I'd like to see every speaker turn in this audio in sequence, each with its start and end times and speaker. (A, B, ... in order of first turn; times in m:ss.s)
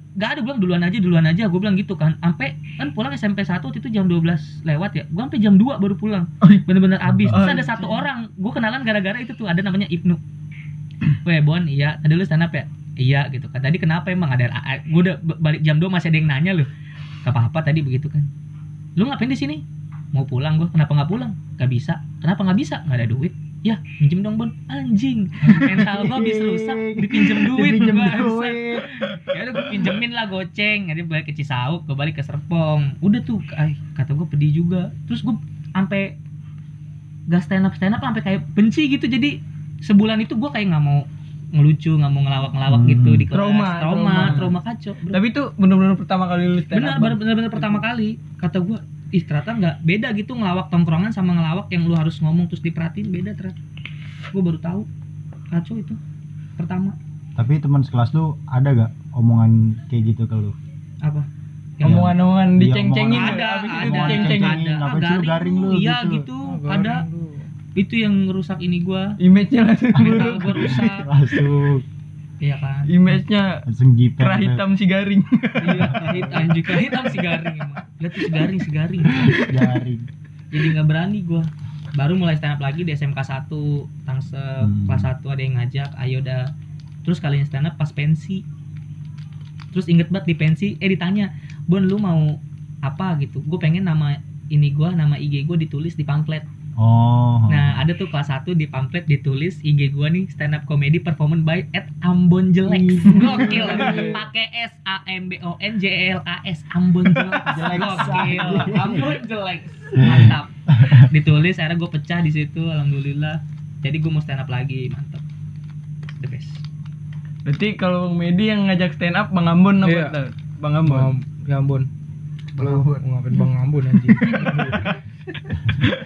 0:00.2-0:10.2 A
0:07.1-0:07.5 B
0:07.3-0:08.0 C
0:11.2-0:16.7 A
0:17.2-0:18.3 A
0:19.0-0:36.2 A
0:25.4-0:29.8 B
0:37.3-0:45.2 A
0:42.7-0:43.3 B
0:43.3-0:44.6 C
0:45.1-0:47.8 C
0:46.7-0:53.5 A
0:54.3-0:54.9 A
0:55.5-0:56.0 A
0:56.6-0:57.0 A
0:57.4-1:00.6 B
1:01.8-1:04.6 C
1:01.8-1:06.3 B
1:03.1-1:07.0 A
1:06.4-1:07.5 D
1:07.8-1:09.2 A
1:09.2-1:10.8 C
1:10.0-1:11.1 A
1:10.0-1:11.8 B
1:12.4-1:12.9 A
1:12.9-1:13.6 C
1:13.6-1:14.6 B
1:14.2-1:16.0 C
1:15.6-1:19.4 A
1:15.8-1:16.4 B
1:19.4-1:20.1 B
1:20.5-1:26.5 A
1:24.6-1:25.1 B
1:27.0-1:28.4 A
1:29.7-1:36.5 A
1:36.8-1:37.8 B
1:37.5-1:55.2 A
1:42.6-1:44.1 B
1:43.4-1:44.2 D
1:47.3-1:49.2 B
1:50.0-1:51.1 B
1:56.2-1:56.6 A
1:57.4-2:01.1 C
1:59.8-2:00.2 D
2:00.8-2:01.9 D
2:02.6-2:03.0 C
2:02.6-2:04.8 D
2:04.2-2:04.8 A
2:04.3-2:04.6 C